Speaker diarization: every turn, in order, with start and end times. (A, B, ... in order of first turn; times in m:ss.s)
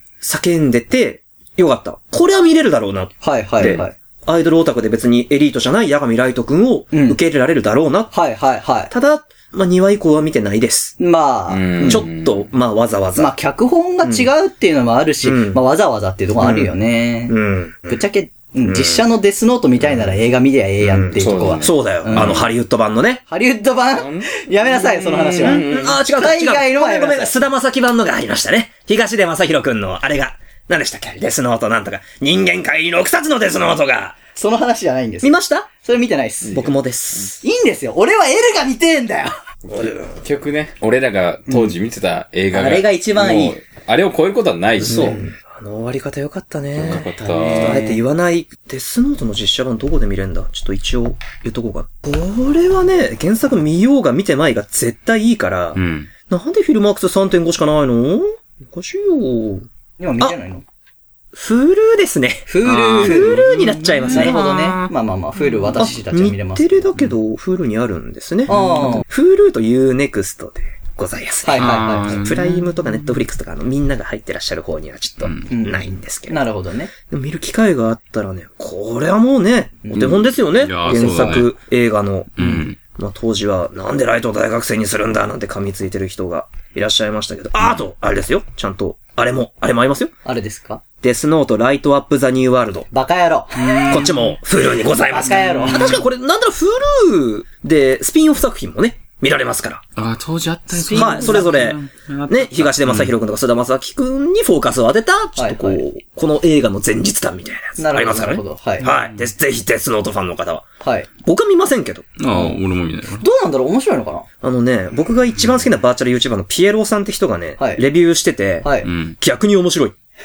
0:00.2-0:08.1 A
0:03.2-0:03.9 B
0:06.9-0:07.2 B
0:08.1-0:08.9 B
0:08.9-0:11.0 A
0:11.0-0:12.0 B
0:11.5-0:12.4 C
0:11.8-0:13.3 A
0:13.2-0:17.4 B
0:14.0-0:14.3 A
0:15.2-0:15.6 A
0:16.4-0:16.8 A
0:17.3-0:18.0 A
0:17.9-0:22.4 B
0:18.7-0:19.0 A
0:20.8-0:23.2 A
0:21.2-0:22.5 C
0:23.3-0:27.4 B
0:24.0-0:26.0 C
0:25.3-0:34.2 A
0:34.4-0:36.7 B
0:35.2-0:35.7 A
0:36.5-0:37.4 A
0:37.4-0:39.4 B
0:39.7-0:45.2 C
0:39.7-0:40.0 A
0:42.5-0:43.6 B
0:44.8-0:45.2 B
0:44.8-0:59.7 A
0:46.8-0:47.8 C
0:46.8-0:48.0 B
0:55.8-0:56.1 C
1:00.0-1:00.6 B
1:01.3-1:04.8 A
1:02.5-1:06.9 B
1:02.6-1:04.9 C
1:05.5-1:05.9 C
1:05.8-1:16.4 A
1:08.5-1:09.1 B
1:11.4-1:12.2 B
1:11.6-1:13.0 C
1:15.2-1:15.5 C
1:15.5-1:16.9 B
1:17.1-1:30.1 A
1:19.8-1:20.2 B
1:20.0-1:21.5 C
1:22.4-1:22.8 C
1:30.2-1:30.8 B
1:31.0-1:32.9 A
1:32.9-1:34.1 B
1:33.6-1:34.4 C
1:33.9-1:39.8 A
1:35.1-1:36.0 B
1:35.4-1:36.0 C
1:40.0-1:43.1 C
1:40.7-1:41.7 B
1:40.9-1:50.7 A
1:45.4-1:45.8 B
1:47.8-1:48.9 B
1:48.8-1:49.2 C
1:50.8-1:51.1 B
1:51.2-1:52.1 A
1:52.2-1:53.2 C
1:53.2-1:54.3 B
1:54.4-2:00.0 A
1:57.6-1:57.8 B
1:58.6-1:58.9 B
1:58.8-1:59.2 C